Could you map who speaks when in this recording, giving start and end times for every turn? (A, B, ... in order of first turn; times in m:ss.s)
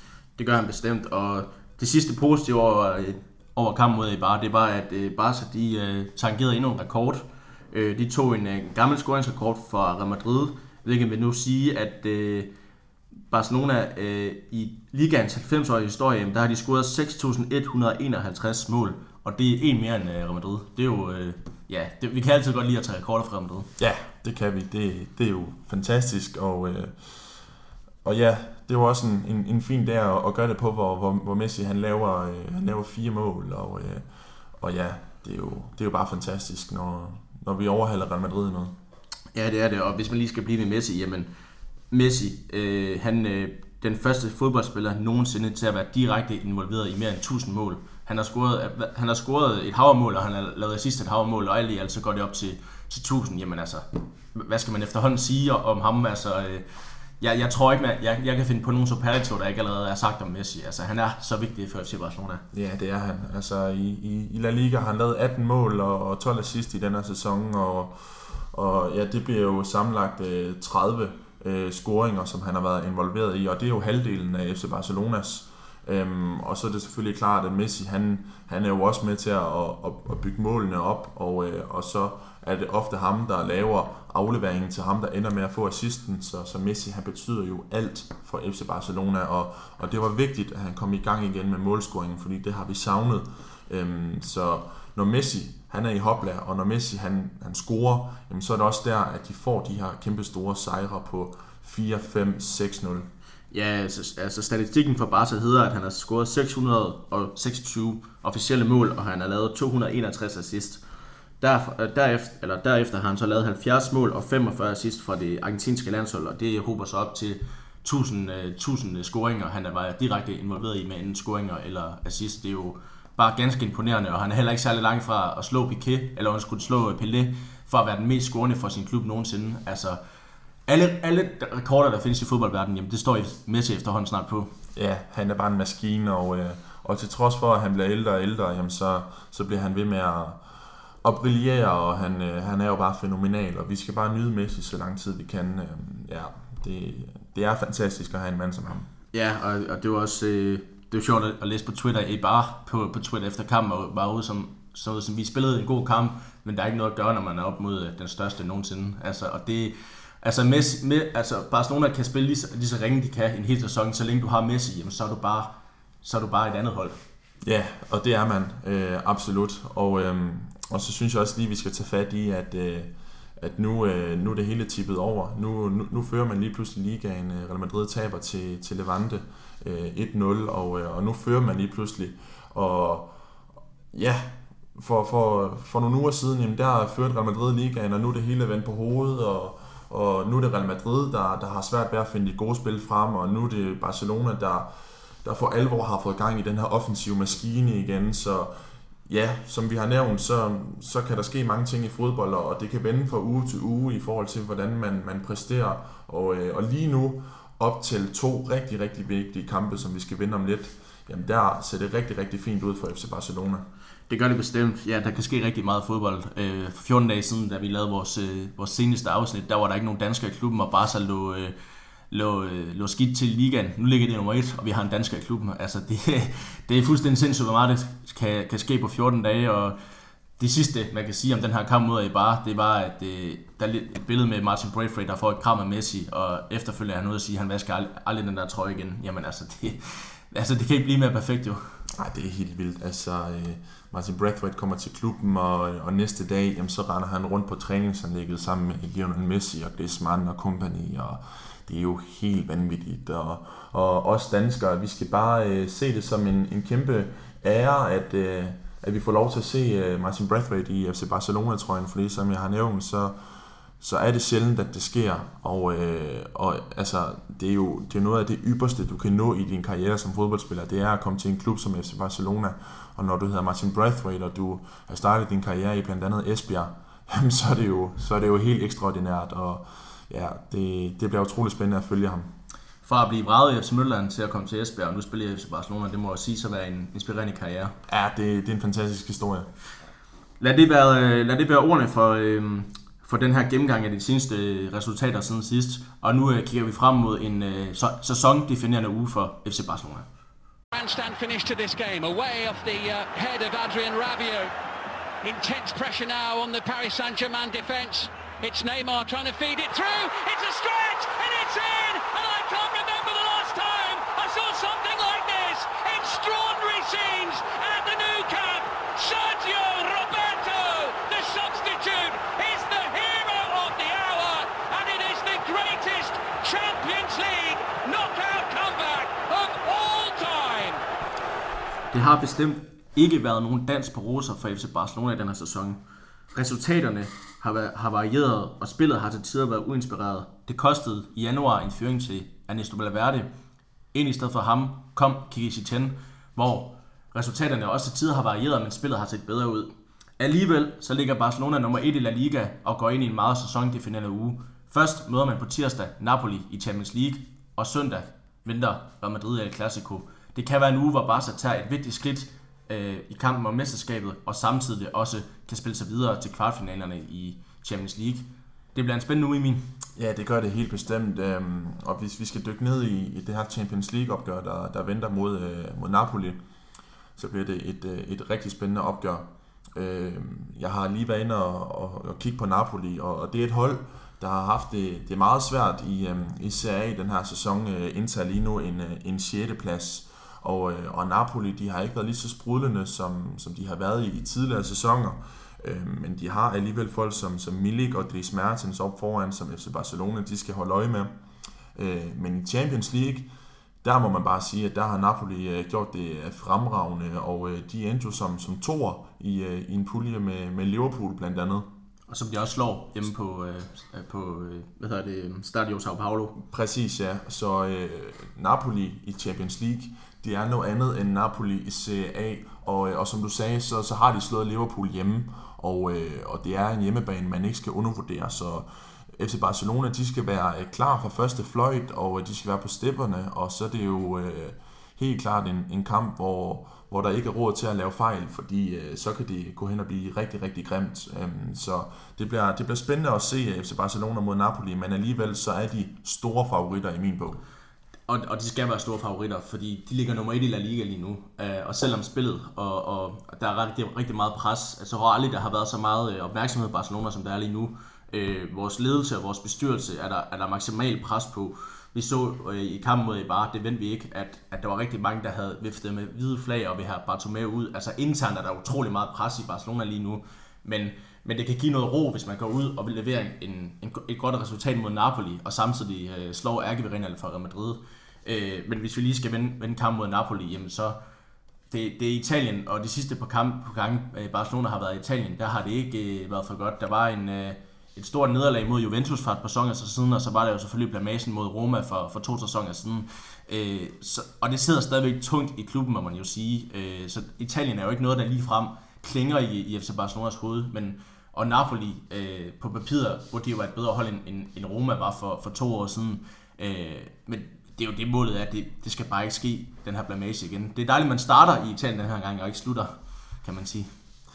0:00.4-0:12.5 A
0:13.3-0:23.7 A
0:23.8-0:27.2 B
0:28.0-0:34.1 B
0:34.6-0:38.7 B
0:39.3-0:41.3 A
0:41.9-0:56.6 A
0:57.2-1:02.4 A
1:02.5-1:43.1 B
1:43.5-1:50.8 A
1:51.4-2:10.0 A
2:10.7-2:14.5 A
2:14.8-2:20.4 B
2:21.0-2:28.9 B
2:29.1-2:45.5 A
2:46.0-2:47.0 A
2:47.4-3:03.1 B
3:03.9-3:14.7 B
3:15.2-3:18.5 B
3:19.1-3:33.6 B
3:34.1-3:41.5 A
3:42.1-3:49.8 A
3:50.4-4:01.6 A
4:01.9-4:23.2 B
4:23.8-4:42.3 B
4:42.8-4:47.7 A
4:47.9-4:49.5 B
4:50.4-5:00.1 A
5:00.7-5:04.5 C
5:05.2-5:30.8 C
5:31.9-5:35.8 A
5:36.3-5:43.3 A
5:43.9-6:09.6 A
6:10.0-6:16.4 B
6:17.2-6:41.1 B
6:41.8-6:43.3 B
6:43.8-6:51.7 B
6:52.1-6:56.4 A
6:56.4-7:27.4 B
7:28.1-8:01.0 A
8:01.7-8:32.9 A
8:33.4-8:33.9 A